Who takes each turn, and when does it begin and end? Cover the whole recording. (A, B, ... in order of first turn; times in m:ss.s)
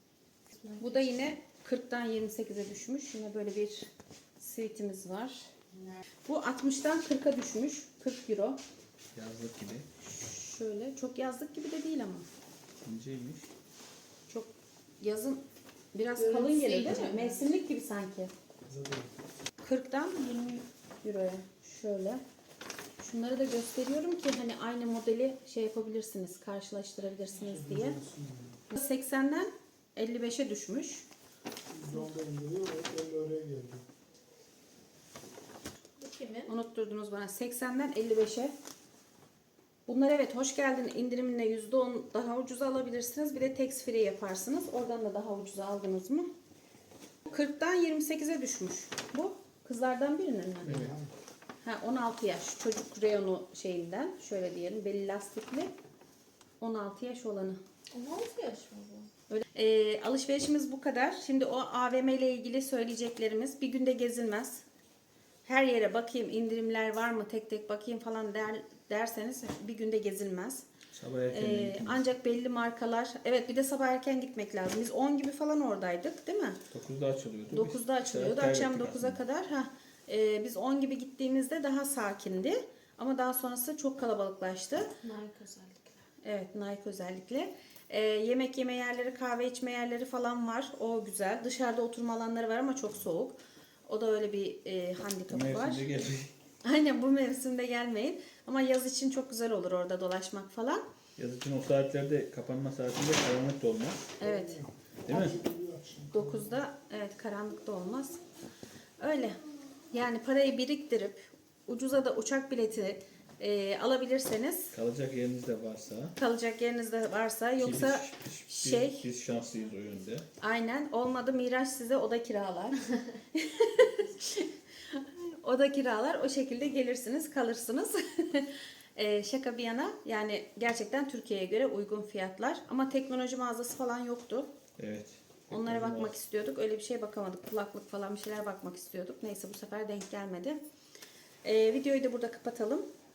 0:00.5-0:01.3 A
0:00.8-0:05.5 B
0:06.2-0:08.6 B
0:09.1-0:09.9 C
0:10.0-0:12.3 B
0:12.8-0:13.5 C
0:14.3-0:15.4 B
0:15.9-0:18.3 B
0:16.2-0:17.5 A
0:18.6-0:19.1 D
0:19.6-0:22.2 B
0:23.0-0:28.0 B
0:27.4-0:28.6 D
0:28.7-0:31.0 B
0:31.7-0:33.8 D
0:36.0-0:36.5 A
0:36.5-0:38.5 B
0:39.8-0:46.3 B
0:47.2-0:50.8 B
0:50.6-0:51.1 D
0:51.6-0:55.7 B
0:56.6-0:57.6 B
0:57.9-0:59.1 A
0:59.3-1:04.6 B
1:05.4-1:10.6 B
1:10.9-1:12.1 C
1:11.3-1:16.6 B
1:16.7-1:19.2 C
1:17.5-1:24.9 B
1:25.0-1:26.0 A
1:26.2-1:33.4 B
1:33.9-1:35.8 B
1:35.3-1:36.3 C
1:36.6-1:40.8 B
1:41.2-1:44.0 C
1:44.2-1:44.6 B
1:44.2-1:46.6 D
1:45.1-1:45.4 C
1:46.1-1:48.2 B
1:49.0-1:49.4 B
1:49.9-1:54.7 B
1:54.7-1:56.2 C
1:56.2-1:59.0 B
1:57.6-2:00.3 C
2:00.4-2:02.8 B
2:03.3-2:14.5 B
2:14.8-2:16.1 C
2:15.5-2:20.6 B
2:21.4-2:22.8 B